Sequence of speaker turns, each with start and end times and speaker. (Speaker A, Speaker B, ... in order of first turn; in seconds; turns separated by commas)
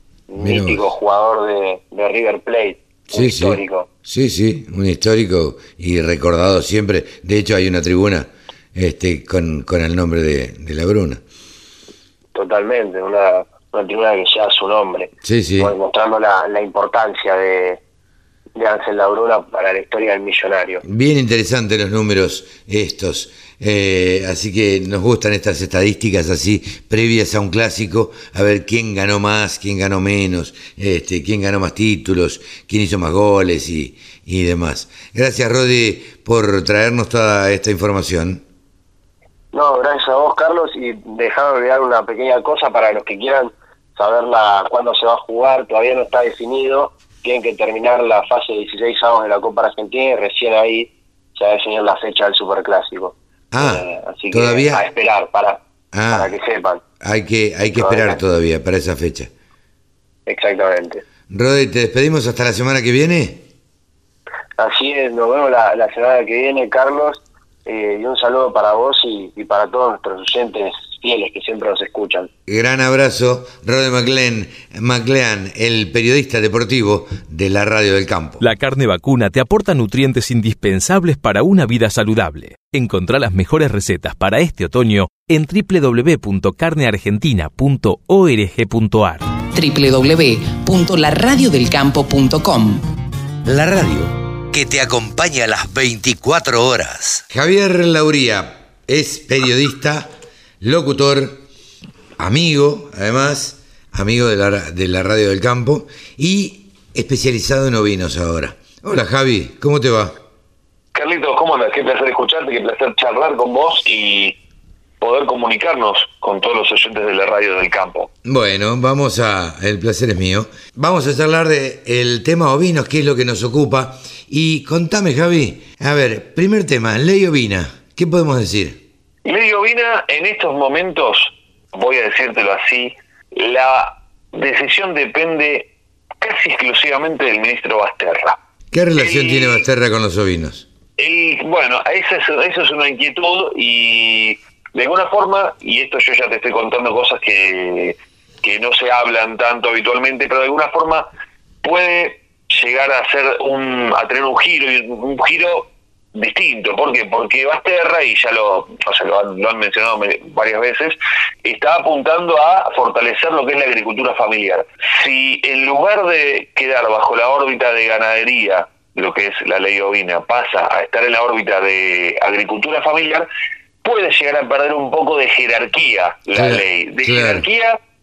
Speaker A: 0.3-3.9, Speaker B: 0.4-0.8, Speaker B: 3.1-11.2, Speaker A: 12.3-17.8, Speaker B: 15.2-15.7, Speaker A: 18.6-20.8, Speaker B: 20.8-38.4, Speaker A: 39.5-56.8, Speaker B: 53.5-54.8, Speaker B: 55.9-56.3, Speaker B: 57.0-59.3, Speaker A: 57.8-58.2, Speaker A: 60.3-61.0, Speaker B: 61.3-63.4, Speaker A: 64.6-72.3, Speaker B: 72.5-78.4, Speaker C: 78.4-89.2, Speaker D: 89.5-92.8, Speaker B: 93.4-100.1, Speaker B: 100.6-101.4, Speaker B: 102.2-110.2, Speaker E: 110.9-114.4, Speaker E: 115.0-118.1, Speaker B: 118.2-128.8, Speaker E: 129.2-138.4, Speaker B: 138.7-140.7, Speaker E: 139.0-139.6, Speaker E: 141.0-151.1, Speaker E: 151.6-173.3, Speaker E: 173.8-177.8, Speaker B: 176.3-177.4